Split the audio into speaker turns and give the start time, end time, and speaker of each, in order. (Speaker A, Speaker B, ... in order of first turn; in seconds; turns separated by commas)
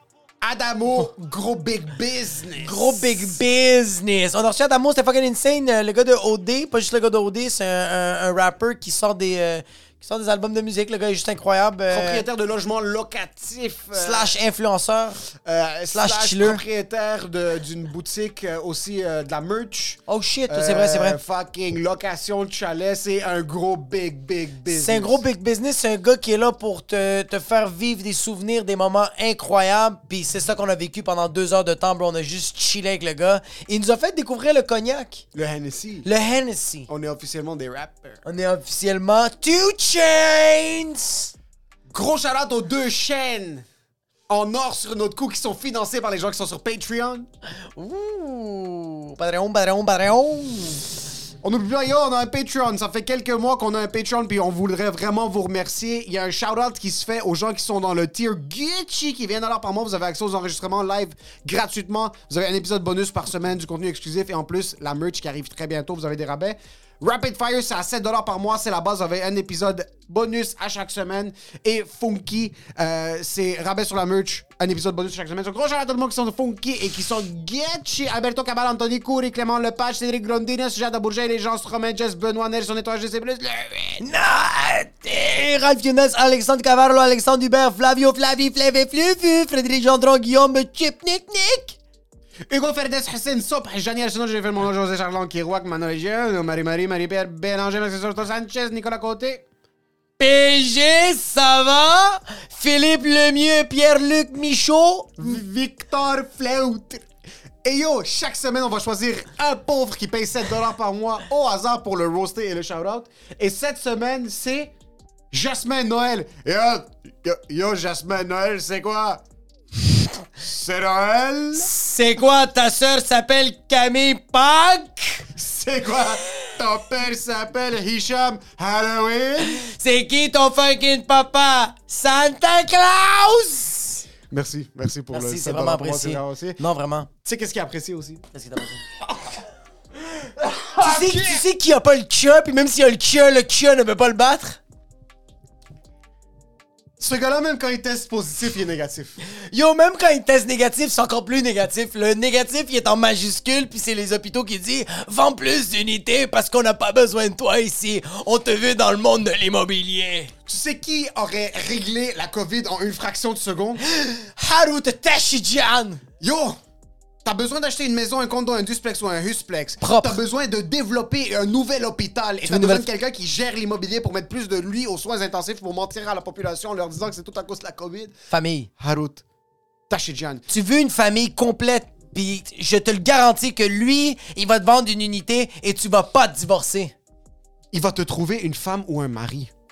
Speaker A: 0.4-3.3, Speaker B: 2.6-12.2, Speaker A: 11.9-14.3, Speaker B: 13.9-15.2, Speaker A: 15.3-25.2, Speaker B: 15.9-16.6, Speaker B: 20.1-21.2, Speaker B: 24.7-35.2, Speaker A: 35.3-36.1, Speaker B: 36.0-36.9, Speaker A: 36.9-38.2, Speaker B: 38.2-41.3, Speaker A: 41.9-43.6, Speaker A: 44.3-47.3, Speaker B: 47.8-51.0, Speaker A: 51.4-84.0, Speaker B: 84.0-91.8, Speaker A: 92.5-99.4, Speaker B: 100.2-105.4, Speaker A: 105.2-107.1, Speaker A: 107.6-114.7, Speaker A: 115.3-119.2, Speaker A: 120.4-121.7, Speaker B: 121.6-125.3, Speaker A: 125.3-129.6, Speaker B: 129.4-134.1, Speaker A: 134.3-136.6, Speaker B: 135.1-137.1, Speaker A: 137.2-138.2, Speaker B: 138.3-138.8, Speaker A: 140.3-141.4, Speaker B: 140.8-144.6, Speaker A: 147.0-149.2, Speaker B: 149.4-160.3, Speaker A: 160.5-163.8, Speaker B: 163.8-166.0, Speaker A: 166.2-166.6, Speaker A: 167.2-178.1, Speaker B: 169.8-170.2, Speaker B: 172.5-172.8, Speaker B: 178.3-178.7, Speaker A: 178.8-179.2, Speaker A: 179.9-180.4, Speaker B: 180.5-186.9, Speaker A: 187.7-189.5